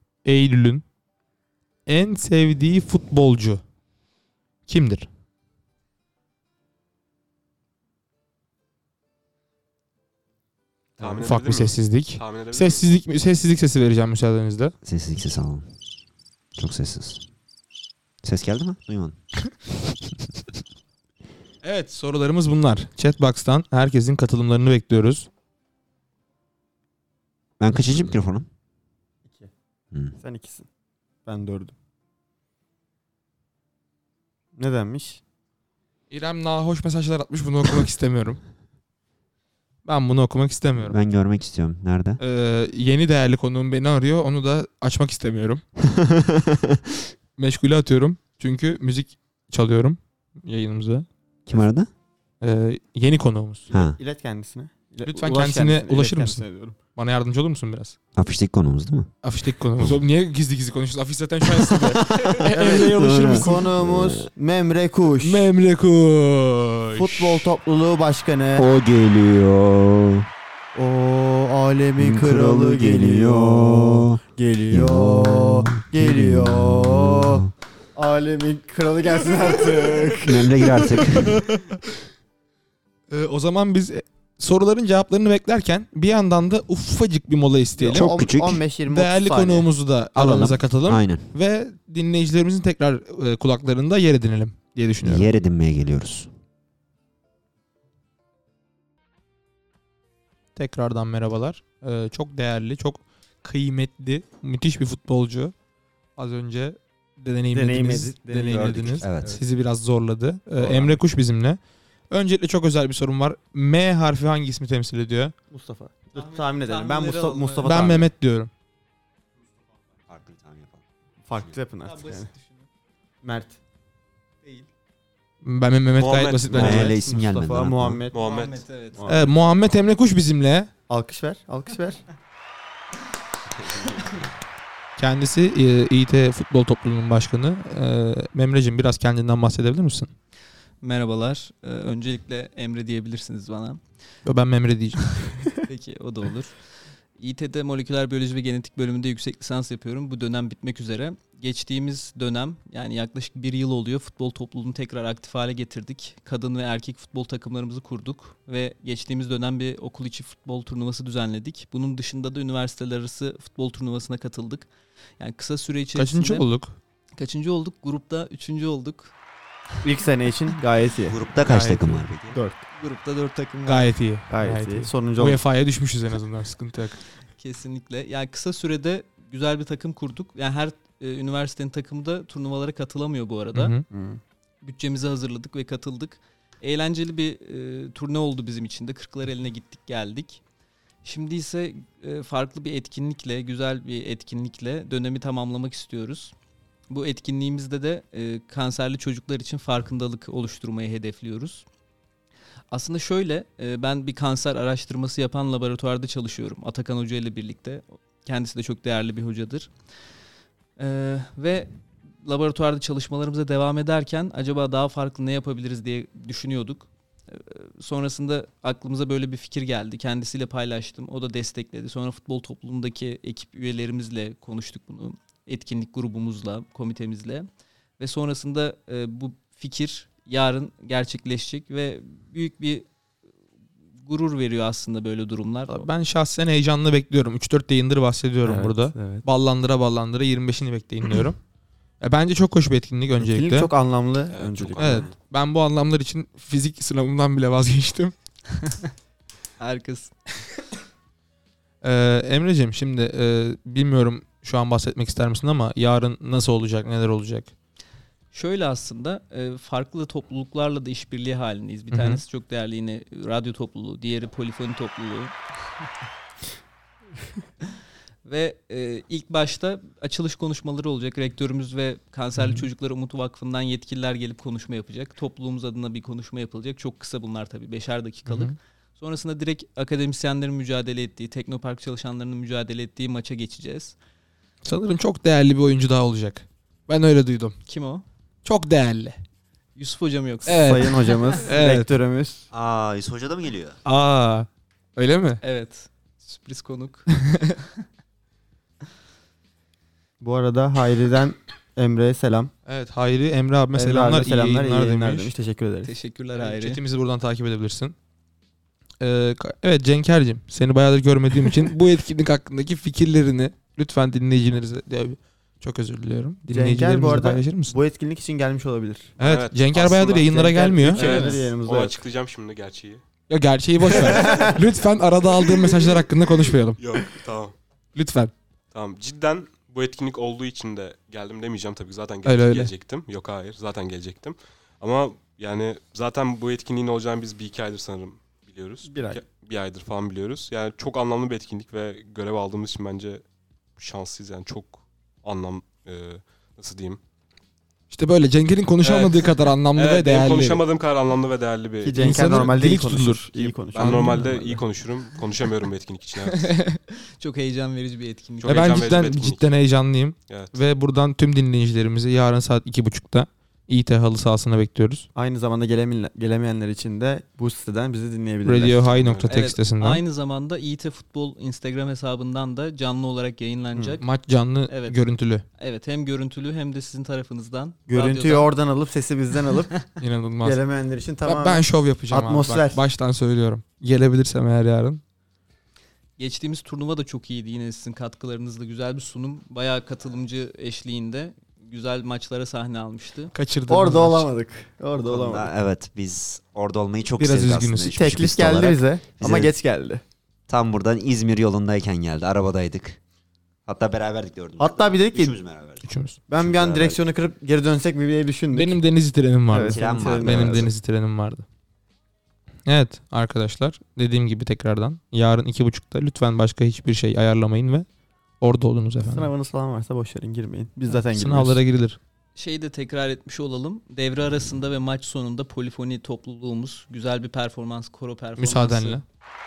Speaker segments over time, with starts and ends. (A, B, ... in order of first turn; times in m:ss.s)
0:00.2-0:00.8 A
0:01.8-0:03.6 A
0:04.7-0:05.1 A
0:11.0-0:12.9 B
0:11.2-0:14.7 A
0:14.8-0:15.7 C
0:16.6-0:17.2 C
0:18.2-0:19.2 C
0:21.6-0:25.3 A
0:27.6-0:28.5 C
0:29.2-0:29.5 D
0:30.2-0:30.7 D
0:31.2-0:31.7 D
0:34.6-0:35.2 D
0:36.1-0:38.4 A
0:39.8-0:41.0 A
0:40.8-0:42.2 C
0:42.2-0:45.6 A
0:45.8-0:46.8 C
0:47.4-0:51.1 A
0:51.5-0:51.9 C
0:52.4-0:53.7 A
0:53.7-0:54.0 C
0:53.7-0:56.8 D
0:55.0-0:56.4 A
0:57.0-0:58.0 A
0:58.2-0:59.1 C
0:59.2-1:03.6 A
1:01.4-1:04.3 C
1:02.6-1:05.5 D
1:05.2-1:07.3 A
1:06.9-1:08.7 D
1:08.6-1:10.3 C
1:10.7-1:20.9 D
1:12.0-1:17.5 C
1:20.2-1:21.4 C
1:21.2-1:21.8 A
1:23.1-1:28.1 A
1:27.8-1:29.7 D
1:27.9-1:28.6 C
1:28.9-1:35.3 A
1:30.1-1:31.3 C
1:35.0-1:36.3 C
1:40.5-1:45.5 A
1:46.2-1:55.3 A
1:47.5-1:49.4 D
1:48.5-1:49.4 C
1:50.6-1:51.0 C
1:55.5-1:58.1 D
1:56.1-1:57.6 E
1:57.6-1:58.5 A
2:00.1-2:00.8 C
2:01.2-2:02.3 D
2:01.8-2:02.6 E
2:03.2-2:03.6 D
2:04.4-2:04.7 E
2:05.4-2:07.0 A
2:06.0-2:08.3 D
2:06.5-2:08.0 C
2:08.1-2:08.6 B
2:08.2-2:09.0 E
2:09.0-2:09.3 D
2:09.1-2:10.7 A
2:10.9-2:12.0 D
2:15.0-2:20.1 A
2:20.8-2:23.8 E
2:24.2-2:25.1 A
2:25.6-2:26.6 E
2:27.2-2:46.4 E
2:46.0-2:46.8 A
2:47.2-2:49.1 E
2:49.8-2:51.2 D
2:51.0-2:52.4 C
2:51.4-2:52.1 A
2:52.3-2:52.6 D
2:52.8-2:53.9 E
2:53.6-2:57.0 A
2:54.3-2:55.4 D
2:57.4-3:03.7 E
3:03.5-3:03.8 A
3:03.9-3:04.2 D
3:04.6-3:10.4 E
3:11.0-3:16.3 E
3:16.9-3:21.6 E
3:22.7-3:29.7 E
3:30.8-3:31.7 E
3:32.2-3:47.5 E
3:48.0-3:52.9 E
3:54.0-3:55.9 E
3:55.7-4:01.4 A
3:58.4-3:59.2 D
4:02.0-4:03.7 A
4:03.2-4:05.1 D
4:04.3-4:05.1 B
4:04.8-4:08.1 A
4:08.5-4:08.9 E
4:09.6-4:10.1 E
4:11.8-4:17.5 A
4:18.3-4:25.3 E
4:21.9-4:22.2 A
4:28.2-4:43.9 E
4:32.4-4:32.7 A
4:38.2-4:38.5 A
4:44.6-4:47.6 A
4:47.7-4:48.0 E
4:48.4-4:49.2 A
4:49.8-4:50.6 E
4:50.4-4:51.9 A
4:50.5-4:52.4 D
4:52.5-4:53.8 C
4:53.8-4:55.4 A
4:55.4-4:57.1 E
4:57.2-4:57.6 A
5:00.2-5:02.5 D
5:02.6-5:05.3 A
5:03.7-5:05.9 D
5:05.8-5:06.8 E
5:06.4-5:07.9 A
5:09.0-5:17.7 A
5:16.5-5:19.1 D
5:19.2-5:23.0 B
5:19.2-5:21.4 A
5:20.2-5:22.0 D
5:23.3-5:26.8 A
5:23.9-5:24.5 B
5:24.2-5:24.6 D
5:25.4-5:25.7 B
5:26.8-5:27.5 B
5:27.9-5:28.3 A
5:28.7-5:43.2 B
5:32.2-5:32.7 A
5:38.8-5:39.2 D
5:43.8-5:47.0 B
5:47.9-5:50.6 A
5:48.8-5:52.5 B
5:51.8-5:54.6 D
5:52.0-5:54.4 A
5:53.7-5:56.5 B
5:56.3-5:56.8 A
5:57.1-5:59.0 E
5:58.4-5:59.5 B
5:58.4-6:05.1 A
6:00.3-6:00.6 B
6:05.1-6:09.3 D
6:08.4-6:10.0 A
6:09.0-6:09.3 B
6:09.3-6:14.0 E
6:13.7-6:14.0 D
6:14.0-6:15.4 A
6:14.7-6:15.0 E
6:15.6-6:18.5 E
6:17.9-6:19.8 D
6:20.0-6:20.6 A
6:20.4-6:22.8 D
6:21.2-6:25.0 A
6:26.2-6:33.3 E
6:33.3-6:34.3 A
6:33.7-6:35.5 D
6:35.0-6:39.5 C
6:37.2-6:38.1 A
6:37.9-6:40.0 D
6:40.5-6:43.0 C
6:43.6-6:47.0 C
6:44.6-6:45.4 D
6:45.8-6:46.2 A
6:46.3-6:48.8 D
6:48.5-6:51.4 A
6:49.5-6:50.7 D
6:49.6-6:50.7 C
6:52.6-6:57.9 A
6:58.4-6:59.3 A
6:59.0-7:01.6 D
7:01.1-7:02.0 A
7:02.4-7:09.0 E
7:08.4-7:09.0 A